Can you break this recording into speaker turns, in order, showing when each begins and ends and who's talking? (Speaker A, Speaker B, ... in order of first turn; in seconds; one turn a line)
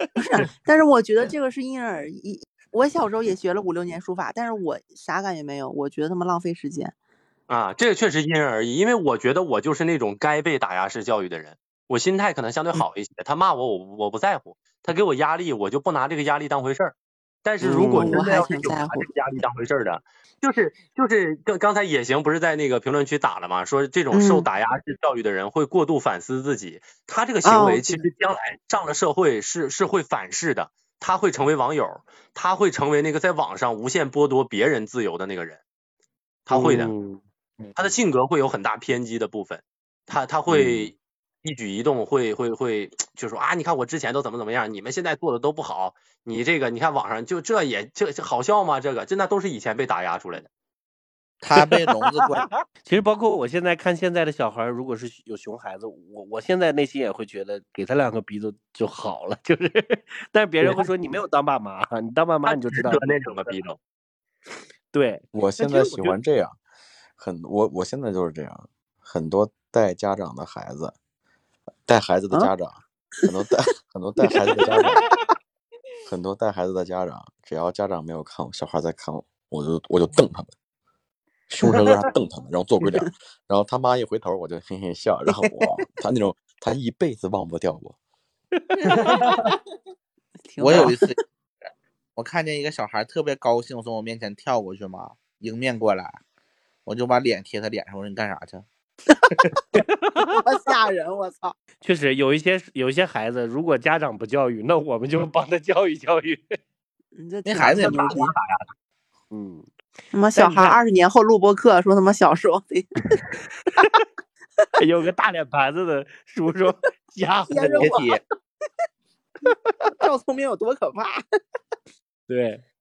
Speaker A: 0.2-6.9
Speaker B: 7.5-16.9
Speaker B: 17.4-35.6
Speaker C: 17.6-18.4
Speaker A: 17.9-19.1
Speaker A: 24.1-24.4
Speaker A: 27.4-28.1
Speaker B: 36.5-36.9
Speaker C: 36.5-37.9
Speaker B: 37.8-50.5
Speaker C: 40.5-40.9
Speaker D: 51.4-52.5
Speaker C: 51.5-63.5
Speaker B: 62.5-63.8
Speaker C: 64.9-66.2
Speaker E: 65.3-66.6
Speaker E: 67.2-70.9
Speaker E: 71.8-75.0
Speaker E: 76.0-80.5
Speaker E: 81.5-88.0
Speaker C: 88.7-89.4
Speaker B: 89.0-89.5
Speaker A: 90.5-91.0
Speaker D: 90.6-91.2
Speaker D: 92.2-96.2
Speaker D: 96.8-98.7
Speaker C: 99.7-100.4
Speaker A: 100.2-101.5
Speaker C: 101.8-106.6
Speaker A: 107.2-108.3
Speaker D: 107.4-108.2
Speaker B: 107.8-108.7
Speaker C: 109.3-109.7
Speaker A: 110.1-113.2
Speaker C: 110.3-110.8
Speaker C: 113.7-114.0
Speaker C: 114.8-118.0
Speaker A: 117.5-118.2
Speaker D: 117.8-118.2
Speaker C: 119.5-119.9
Speaker A: 119.9-121.2
Speaker C: 122.3-122.6